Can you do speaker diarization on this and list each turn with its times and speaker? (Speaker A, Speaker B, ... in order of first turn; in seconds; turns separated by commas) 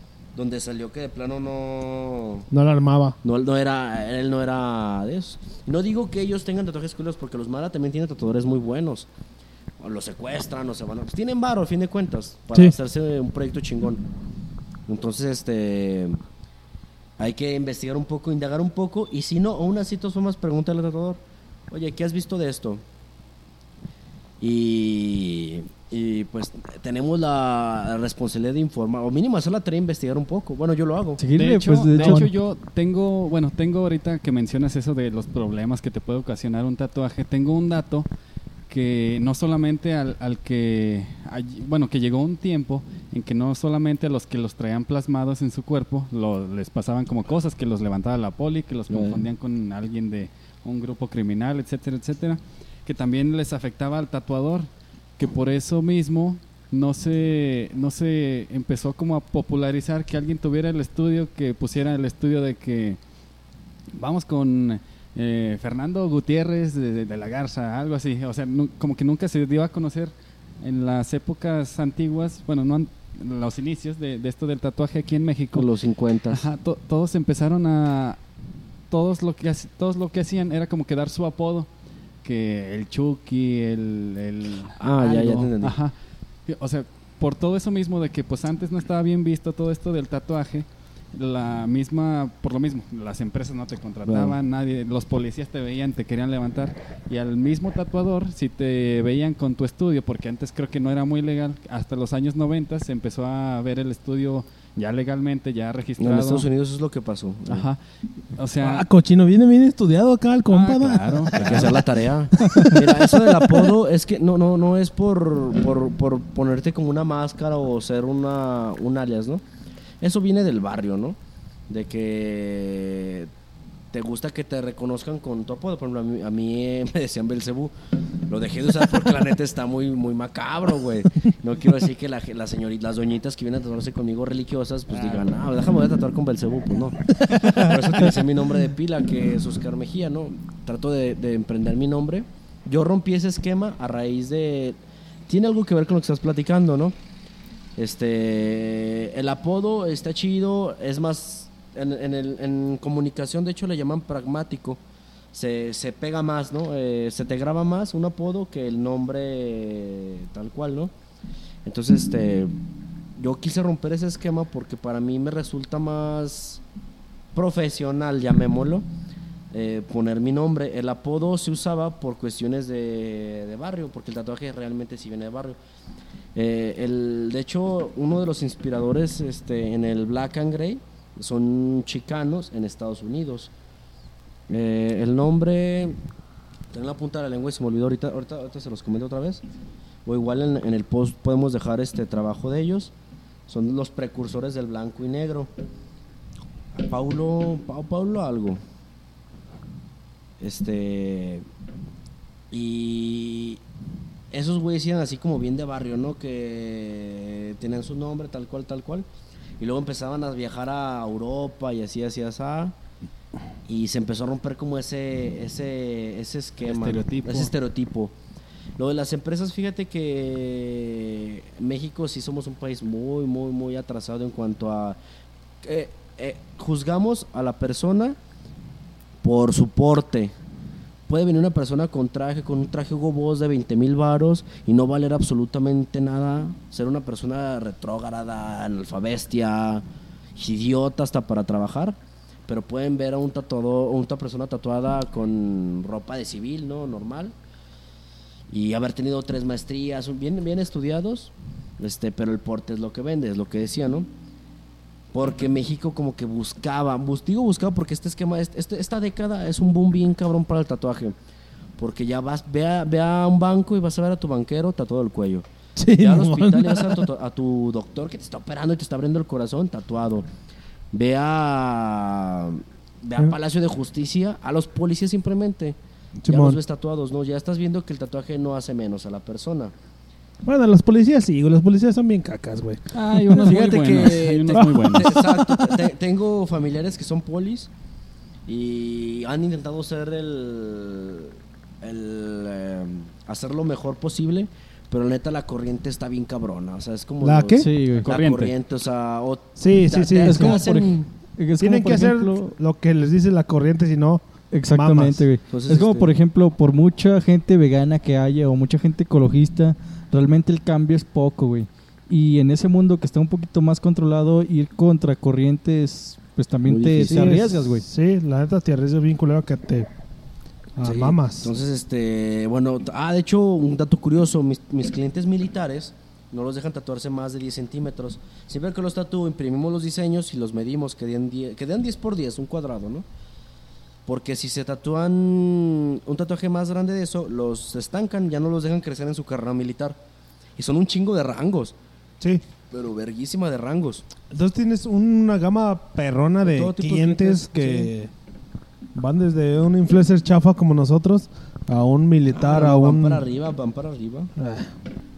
Speaker A: 0.3-2.5, Speaker B: 2.5-3.2, Speaker A: 3.2-9.1, Speaker A: 9.8-14.0, Speaker A: 14.9-16.2, Speaker A: 17.2-22.8, Speaker A: 24.4-31.2, Speaker C: 31.2-32.3, Speaker D: 31.4-38.1, Speaker A: 32.0-32.2, Speaker D: 38.7-63.0, Speaker A: 48.9-49.2, Speaker D: 64.0-75.7, Speaker A: 75.5-76.4, Speaker D: 76.3-78.2, Speaker D: 78.9-81.7, Speaker D: 82.2-85.9, Speaker A: 84.8-85.7, Speaker D: 86.5-106.5, Speaker A: 94.0-94.4, Speaker A: 106.0-107.7, Speaker D: 107.5-107.8, Speaker D: 108.3-108.9, Speaker B: 108.6-111.8, Speaker D: 110.5-111.9, Speaker A: 111.3-119.4, Speaker B: 112.3-113.6, Speaker A: 120.0-121.2, Speaker A: 121.7-123.3, Speaker A: 123.9-127.7, Speaker A: 128.3-146.9, Speaker D: 134.9-135.3, Speaker B: 137.2-137.7, Speaker C: 137.4-137.7, Speaker A: 147.8-154.8, Speaker A: 155.3-160.9, Speaker A: 161.7-162.5, Speaker A: 163.2-166.6, Speaker A: 167.3-168.9, Speaker A: 169.5-175.6, Speaker A: 176.3-183.5, Speaker A: 184.5-186.0, Speaker A: 186.7-189.4, Speaker A: 190.1-192.9, Speaker A: 193.5-195.5, Speaker A: 196.7-198.6, Speaker A: 200.4-201.4, Speaker A: 202.5-203.6, Speaker A: 204.3-209.1, Speaker A: 209.6-212.8, Speaker A: 213.7-218.1, Speaker D: 216.6-217.5, Speaker A: 218.8-225.0, Speaker A: 225.6-228.2, Speaker A: 229.2-230.3, Speaker A: 231.1-239.8, Speaker A: 240.4-247.3, Speaker A: 248.5-254.1, Speaker A: 255.1-261.2, Speaker A: 261.8-270.3, Speaker B: 265.8-267.1, Speaker A: 270.9-275.8, Speaker B: 276.2-276.6, Speaker A: 276.3-279.7, Speaker B: 280.4-283.7, Speaker D: 282.9-285.2, Speaker A: 283.4-287.7, Speaker B: 284.5-285.8, Speaker A: 288.5-301.0, Speaker B: 297.2-297.7, Speaker C: 297.6-298.1, Speaker D: 298.0-298.5, Speaker B: 299.6-300.6, Speaker C: 300.2-302.6, Speaker B: 301.6-305.3, Speaker C: 304.5-317.9, Speaker A: 305.5-306.1, Speaker A: 316.7-317.4, Speaker B: 317.1-319.9, Speaker B: 320.8-321.5, Speaker A: 320.8-333.1, Speaker A: 334.1-340.0, Speaker A: 340.6-341.8, Speaker A: 342.7-344.1, Speaker B: 344.3-348.1, Speaker A: 346.4-347.9, Speaker B: 348.9-353.2, Speaker A: 352.3-354.3, Speaker B: 354.4-354.8